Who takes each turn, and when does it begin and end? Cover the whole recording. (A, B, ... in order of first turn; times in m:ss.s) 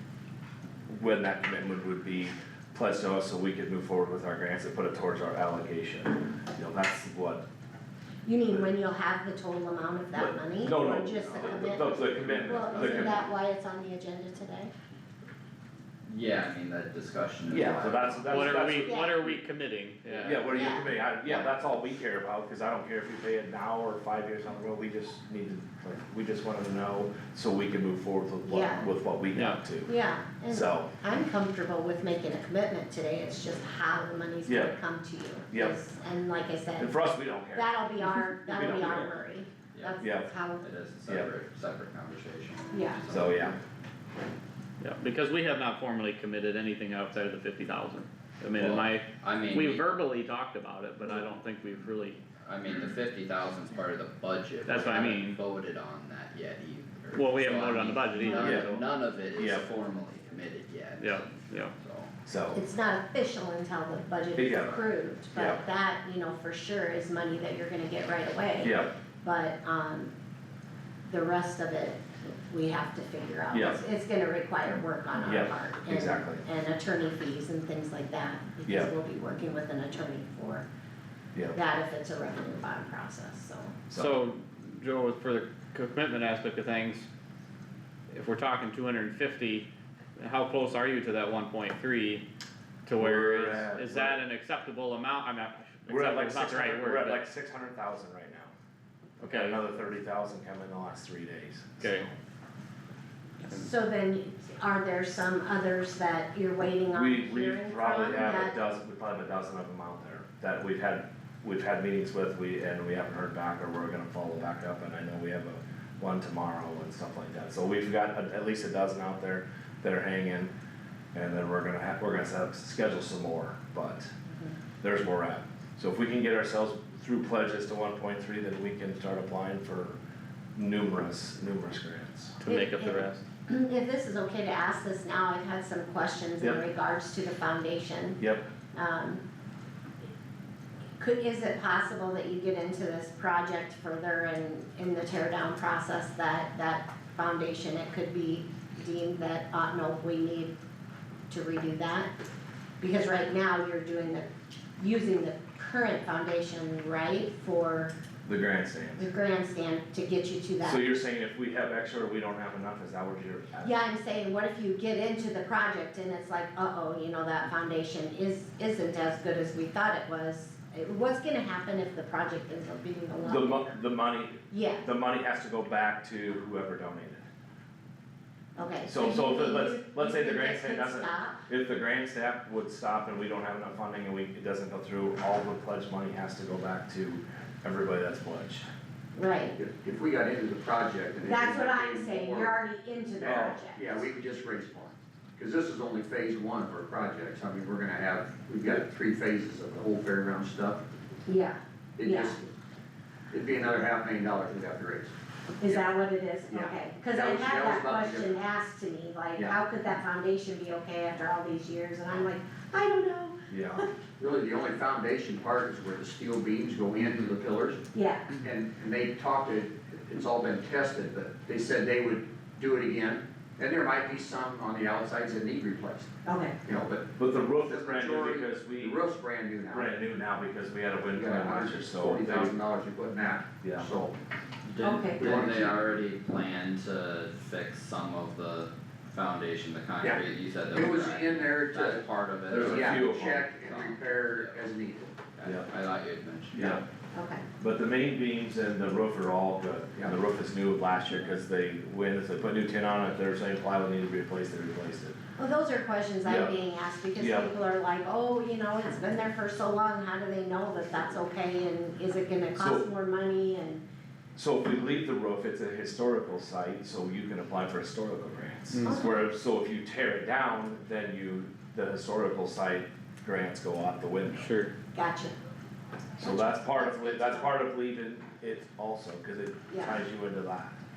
0:00.9-0:07.4 A
0:08.2-0:14.7 B
0:10.1-0:13.2 A
0:11.3-0:13.2 C
0:16.1-0:18.6 C
0:17.5-0:19.3 A
0:18.3-0:20.5 D
0:18.3-0:19.2 B
0:20.2-0:29.9 A
0:20.4-0:21.4 B
0:28.4-0:28.9 B
0:29.3-0:29.6 D
0:29.8-0:37.0 B
0:30.5-0:30.9 A
0:34.4-0:34.8 A
0:35.5-0:35.8 A
0:36.8-0:37.7 A
0:37.5-0:40.6 B
0:38.4-0:39.1 A
0:40.0-0:40.3 A
0:40.6-0:43.6 C
0:42.7-0:43.0 B
0:43.1-0:43.6 A
0:44.8-0:52.2 D
0:48.6-0:49.8 C
0:52.4-1:02.1 C
0:54.6-0:55.4 D
0:57.1-0:58.8 D
0:58.2-0:58.4 B
0:58.4-0:58.7 A
0:59.4-0:59.6 A
1:01.0-1:01.7 D
1:02.2-1:02.6 A
1:02.5-1:10.1 B
1:04.4-1:05.6 A
1:08.6-1:08.9 A
1:11.1-1:20.6 B
1:13.5-1:13.8 A
1:15.2-1:16.4 A
1:18.7-1:18.9 A
1:21.5-1:23.8 B
1:23.9-1:27.1 D
1:28.1-1:32.2 D
1:32.8-1:37.2 D
1:32.9-1:34.2 A
1:35.9-1:38.5 A
1:39.2-1:42.2 A
1:39.2-1:39.6 D
1:41.8-1:42.1 D
1:43.4-1:48.6 B
1:46.9-2:00.5 A
2:01.1-2:04.1 A
2:04.8-2:10.0 A
2:10.6-2:12.4 A
2:12.4-2:13.2 D
2:12.4-2:18.2 B
2:18.2-2:18.4 A
2:18.7-2:19.2 B
2:21.0-2:30.5 B
2:31.3-2:32.1 B
2:32.8-2:37.9 B
2:38.2-2:39.1 A
2:39.0-2:40.8 B
2:40.6-2:43.8 A
2:43.6-2:53.7 B
2:53.2-2:57.2 A
2:54.5-2:54.9 B
2:58.6-3:01.4 B
2:58.8-3:08.7 A
3:09.1-3:09.6 B
3:09.5-3:12.6 E
3:11.2-3:13.8 B
3:13.2-3:20.8 E
3:13.2-3:13.6 A
3:21.2-3:22.4 B
3:22.0-3:22.5 E
3:23.3-3:25.9 E
3:25.6-3:33.9 B
3:26.5-3:28.4 E
3:33.5-3:33.8 A
3:34.2-3:37.8 E
3:37.9-3:38.3 B
3:38.3-3:46.1 E
3:46.2-3:46.6 B
3:46.6-3:49.9 E
3:47.2-3:49.0 A
3:49.7-3:52.5 A
3:51.1-3:54.2 E
3:53.6-3:53.9 A
3:54.6-4:04.5 C
3:54.8-3:55.6 B
3:55.1-3:55.8 E
4:00.7-4:05.2 E
4:02.5-4:03.5 A
4:05.3-4:06.8 C
4:06.5-4:06.8 A
4:07.1-4:07.4 B
4:07.6-4:15.2 A
4:15.4-4:23.8 B
4:16.2-4:16.5 A
4:17.2-4:17.5 A
4:22.6-4:22.9 A
4:24.4-4:34.5 A
4:28.7-4:29.0 D
4:28.8-4:29.3 B
4:34.3-4:34.7 D
4:34.9-4:35.3 B
4:36.2-4:40.8 A
4:36.2-4:37.6 B
4:39.7-4:40.0 B